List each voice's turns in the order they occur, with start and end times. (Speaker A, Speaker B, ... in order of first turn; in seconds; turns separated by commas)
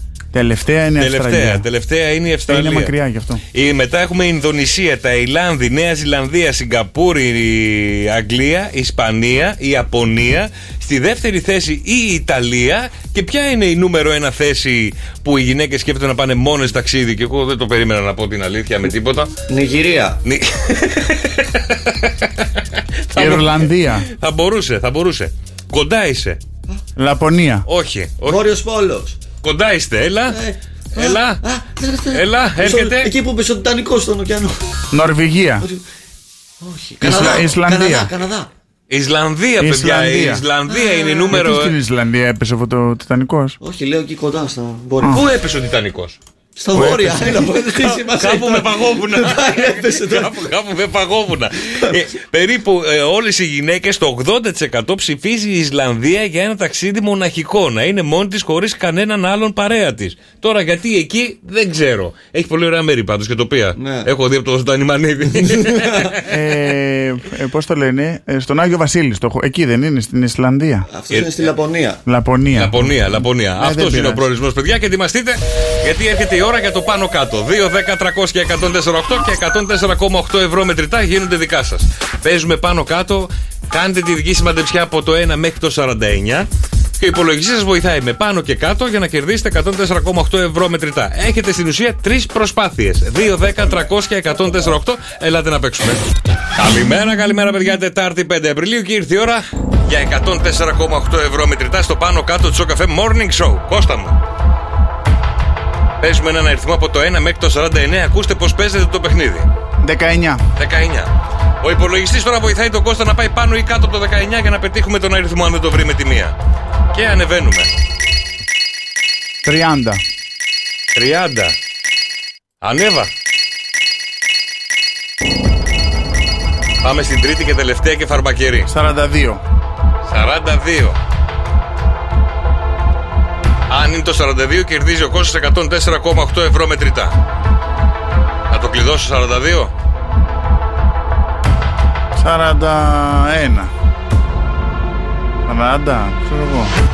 Speaker A: 0.3-1.6, Speaker B: 1.0-2.9, Speaker A: 2.5-3.4, Speaker B: 3.5-19.3, Speaker C: 19.5-20.2, Speaker B: 20.2-22.3, Speaker B: 23.1-26.4, Speaker A: 23.1-24.1, Speaker A: 27.0-27.6, Speaker B: 27.7-28.4, Speaker C: 28.2-29.2, Speaker B: 29.4-30.4, Speaker C: 30.3-34.5, Speaker B: 30.9-31.4, Speaker B: 32.1-33.1, Speaker A: 34.9-35.6, Speaker C: 36.6-38.5, Speaker A: 37.0-38.1, Speaker B: 38.9-41.7, Speaker A: 39.6-40.4, Speaker A: 41.3-43.6, Speaker C: 43.6-45.2, Speaker B: 45.1-46.2, Speaker C: 46.5-50.5, Speaker A: 46.7-47.3, Speaker B: 47.8-66.2, Speaker C: 63.8-64.1, Speaker C: 65.5-66.0, Speaker A: 66.3-70.8, Speaker C: 70.9-72.0, Speaker B: 71.1-71.5, Speaker A: 72.0-74.2, Speaker B: 72.5-86.5, Speaker B: 87.0-96.0, Speaker B: 96.5-104.2, Speaker B: 106.0-109.5, Speaker A: 109.8-110.4, Speaker B: 110.6-116.3, Speaker B: 116.9-117.7, Speaker A: 119.4-120.0, Speaker B: 120.9-121.6, Speaker B: 122.6-123.1, Speaker B: 126.8-128.7, Speaker A: 128.7-129.4, Speaker B: 130.0-131.0, Speaker B: 133.7-137.1, Speaker B: 138.5-139.7, Speaker A: 142.1-143.7, Speaker A: 145.5-146.7